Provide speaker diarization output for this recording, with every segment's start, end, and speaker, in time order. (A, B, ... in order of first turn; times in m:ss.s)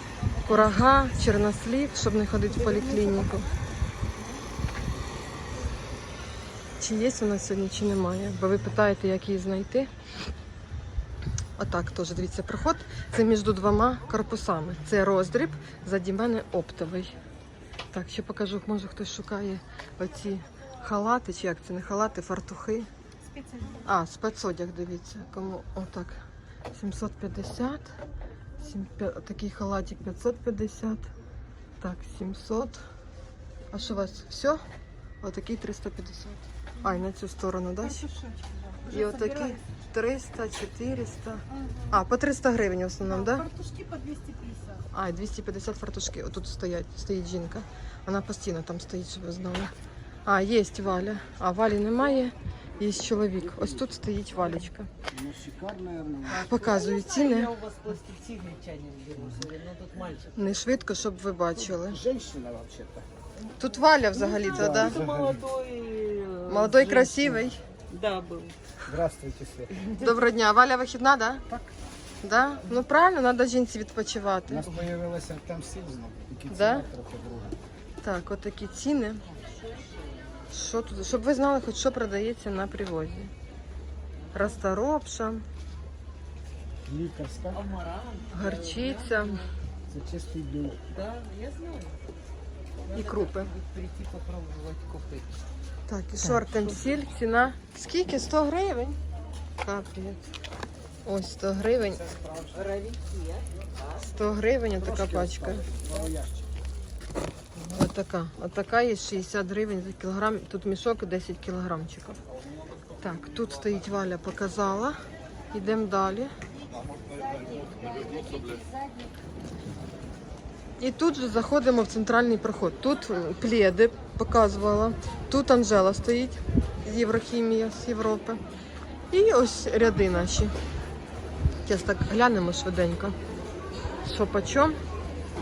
0:00.4-0:03.5 A
0:02.7-0:03.4 B
0:06.8-0:09.9 A
0:11.6-0:17.2 A
0:17.9-0:22.9 A
0:23.2-0:23.9 B
0:23.8-0:26.2 A
0:26.7-0:27.9 A
0:28.6-0:31.1 A
0:31.8-0:32.8 A
0:33.7-0:34.6 A
0:35.2-0:38.0 A
0:37.8-0:39.6 B
0:38.9-0:43.5 A
0:41.5-0:41.9 B
0:43.1-0:44.8 B
0:44.9-0:49.7 A
0:50.3-0:54.9 A
0:55.1-0:56.5 C
0:56.3-0:57.5 A
0:56.4-1:00.3 D
0:59.2-0:59.4 C
1:00.4-1:02.0 A
1:01.7-1:03.0 C
1:03.6-1:05.0 A
1:04.4-1:05.4 C
1:04.7-1:07.4 D
1:06.5-1:07.6 A
1:07.9-1:08.5 D
1:08.8-1:09.8 C
1:09.9-1:11.4 A
1:12.2-1:14.7 A
1:14.5-1:17.6 C
1:16.5-1:16.9 A
1:18.0-1:19.2 A
1:20.5-1:23.3 A
1:24.3-1:25.4 A
1:26.9-1:27.6 C
1:27.5-1:29.5 D
1:28.3-1:29.4 A
1:29.9-1:30.8 C
1:30.9-1:32.0 D
1:32.9-1:35.3 D
1:32.9-1:33.5 A
1:35.9-1:39.0 A
1:39.6-1:40.2 A
1:41.1-1:42.1 A
1:42.2-1:42.6 C
1:42.5-1:43.4 D
1:44.0-1:45.6 A
1:44.8-1:46.3 C
1:47.7-1:52.2 A
1:53.0-1:55.0 A
1:55.5-1:56.3 A
1:57.1-1:59.1 D
2:00.8-2:08.4 A
2:09.1-2:10.5 A
2:11.6-2:13.2 A
2:14.0-2:14.8 A